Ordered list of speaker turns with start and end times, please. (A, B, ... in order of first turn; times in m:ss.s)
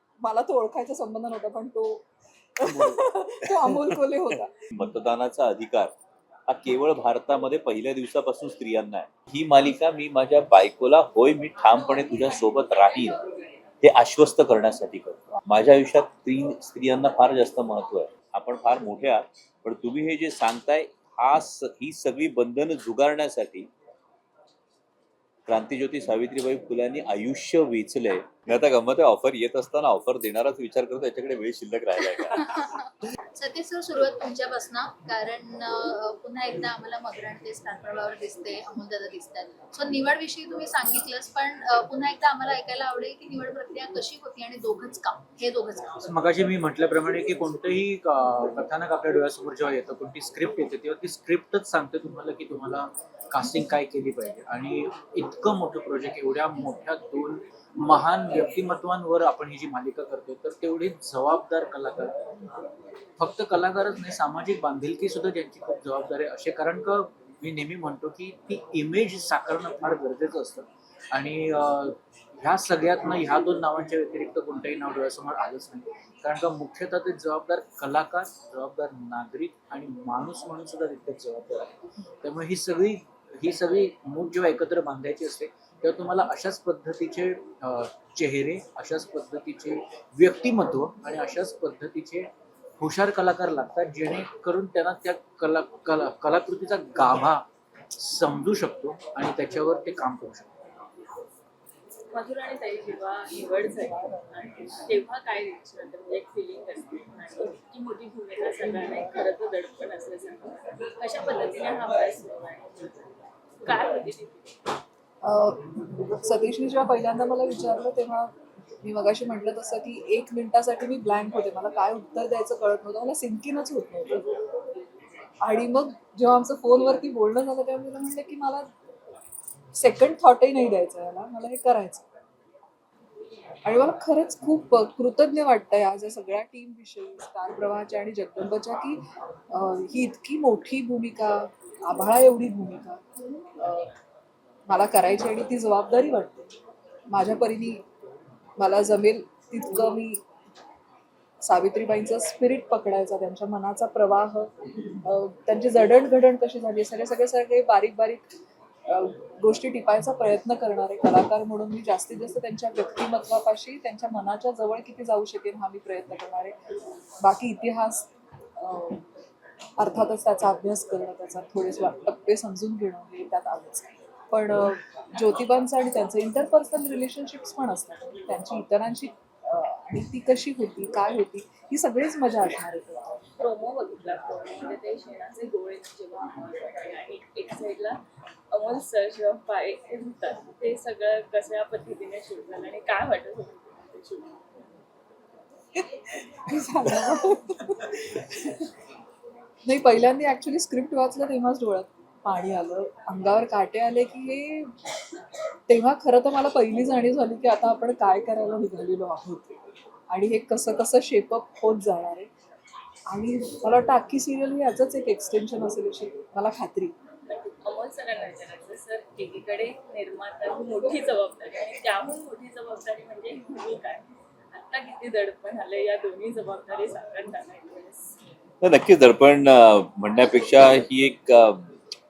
0:00.2-0:02.1 A
0:02.6-0:04.5 A
0:02.7-0:03.0 B
0:04.8-0:06.0 B
0:06.5-0:13.2 B
0:13.8-0:23.7 B
0:25.5-0:32.4 B
0:32.2-0:46.0 C
0:46.0-1:02.2 D
1:03.2-1:21.7 D
1:22.2-1:32.3 D
1:32.8-1:37.4 D
1:38.0-1:40.5 D
1:42.1-1:52.7 E
1:53.6-1:54.4 E
1:55.2-2:04.3 A
2:05.4-2:08.7 A
2:09.8-2:12.1 A
2:13.6-2:23.0 A
2:23.6-2:23.9 A
2:24.7-2:26.5 A
2:27.1-2:27.8 A
2:28.6-2:30.2 A
2:31.4-2:34.5 A
2:35.0-2:38.3 A
2:38.9-2:46.5 A
2:47.2-2:48.1 A
2:48.6-2:49.0 A
2:49.8-3:03.2 A
3:03.4-3:08.0 E
3:08.5-3:14.2 E
3:16.5-3:18.5 A
3:19.7-3:24.7 A
3:25.7-3:29.5 A
3:30.1-3:32.3 A
3:33.1-3:36.9 A
3:37.3-3:48.1 E
3:48.6-3:51.7 B